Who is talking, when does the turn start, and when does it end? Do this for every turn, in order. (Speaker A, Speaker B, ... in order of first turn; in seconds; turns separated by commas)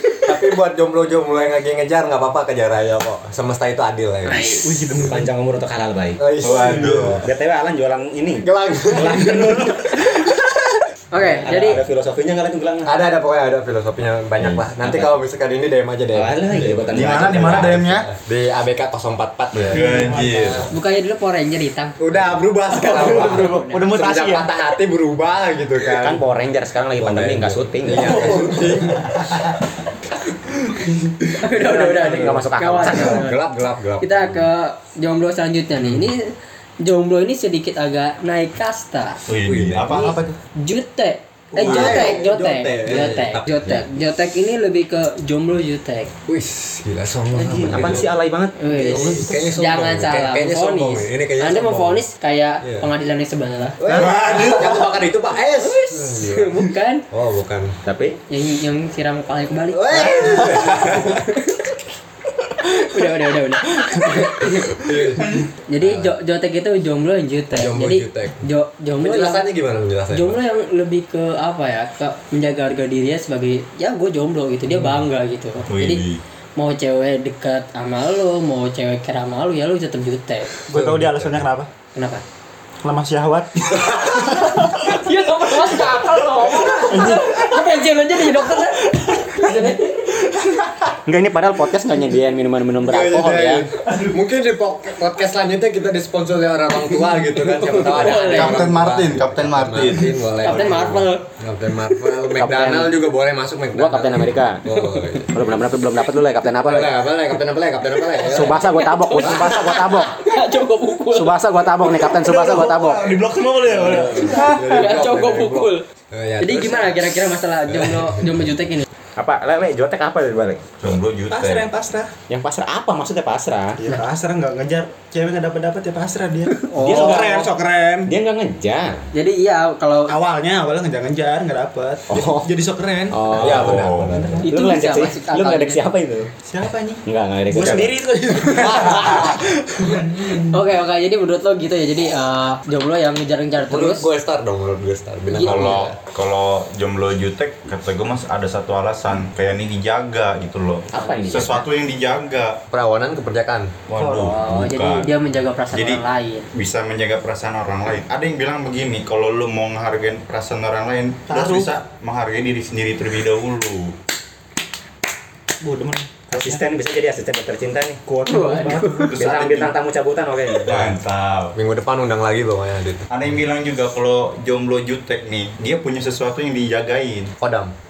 Speaker A: 0.2-4.5, Speaker B: 4.2-4.8, Speaker C: 4.3-5.3, Speaker D: 5.0-6.2, Speaker A: 6.2-7.2, Speaker E: 6.4-7.2, Speaker D: 7.2-10.2, Speaker A: 8.4-9.8, Speaker C: 9.1-9.8, Speaker B: 11.1-11.8, Speaker D: 11.1-12.9, Speaker A: 12.8-16.4, Speaker D: 14.4-15.2, Speaker D: 16.1-17.7, Speaker A: 16.9-20.2, Speaker E: 16.9-18.1, Speaker E: 19.5-20.7, Speaker C: 19.7-20.7, Speaker B: 20.7-22.0, Speaker A: 22.0-26.2, Speaker C: 22.8-24.5, Speaker B: 22.9-23.8, Speaker D: 25.9-28.3, Speaker A: 26.9-29.2, Speaker B: 28.1-28.3, Speaker C: 28.3-28.8, Speaker E: 28.9-29.5, Speaker B: 31.4-33.4, Speaker D: 31.5-33.2, Speaker A: 32.8-34.5, Speaker B: 34.0-39.2, Speaker E: 39.3-40.2, Speaker A: 39.4-40.3, Speaker B: 40.5-46.1, Speaker A: 41.6-43.9, Speaker C: 41.6-42.6, Speaker E: 41.6-42.2, Speaker A: 46.2-48.1, Speaker D: 47.4-48.6, Speaker B: 48.6-54.6, Speaker A: 48.8-52.0, Speaker C: 48.9-49.2, Speaker A: 52.6-52.9, Speaker A: 53.8-57.7, Speaker E: 53.9-54.6, Speaker B: 55.6-57.0, Speaker D: 57.8-58.2, Speaker B: 58.3-61.7, Speaker A: 59.8-61.2, Speaker B: 62.7-69.4, Speaker A: 64.7-66.1, Speaker E: 65.2-65.5, Speaker A: 67.5-68.5, Speaker A: 69.0-70.4, Speaker B: 70.1-76.0, Speaker E: 75.7-76.2, Speaker B: 76.5-80.5, Speaker C: 80.7-81.7, Speaker E: 80.7-81.5, Speaker B: 81.9-82.2, Speaker C: 82.8-85.0, Speaker B: 84.7-90.2, Speaker C: 85.6-87.6, Speaker D: 91.0-93.7, Speaker A: 92.8-105.5, Speaker C: 93.9-94.1, Speaker B: 97.5-98.7, Speaker D: 97.7-98.4, Speaker E: 98.0-100.1, Speaker B: 100.4-101.2, Speaker D: 102.3-102.9, Speaker D: 103.7-104.6, Speaker B: 104.7-105.0, Speaker D: 105.3-106.9, Speaker A: 106.6-109.6, Speaker D: 108.2-110.1, Speaker B: 108.5-111.4, Speaker D: 111.1-113.1, Speaker C: 112.1-114.5, Speaker A: 113.6-118.4, Speaker B: 114.3-115.8, Speaker B: 116.4-118.8, Speaker D: 119.2-120.9, Speaker E: 120.8-121.7, Speaker C: 121.3-122.1, Speaker D: 122.3-123.8, Speaker C: 123.8-128.1, Speaker D: 126.8-127.5, Speaker D: 128.1-129.0, Speaker B: 129.1-130.2, Speaker C: 130.1-133.3, Speaker D: 132.1-132.5, Speaker D: 133.1-136.3, Speaker A: 133.3-134.4, Speaker E: 133.5-134.3, Speaker B: 134.4-135.8, Speaker C: 136.4-140.6, Speaker D: 137.0-138.0, Speaker B: 138.4-139.3, Speaker B: 139.9-144.1, Speaker A: 143.7-145.9, Speaker B: 145.3-145.9, Speaker E: 145.3-152.6, Speaker D: 150.9-151.6, Speaker A: 152.7-153.7, Speaker E: 153.9-155.1, Speaker C: 153.9-154.3, Speaker B: 154.2-156.5, Speaker E: 155.7-163.9, Speaker C: 161.3-161.7, Speaker C: 165.6-166.6, Speaker D: 166.3-168.0, Speaker C: 168.1-169.1, Speaker B: 168.2-169.1, Speaker E: 168.7-169.7, Speaker D: 169.1-170.7, Speaker E: 170.6-171.5, Speaker A: 171.5-173.1, Speaker E: 173.1-177.3, Speaker A: 177.4-177.7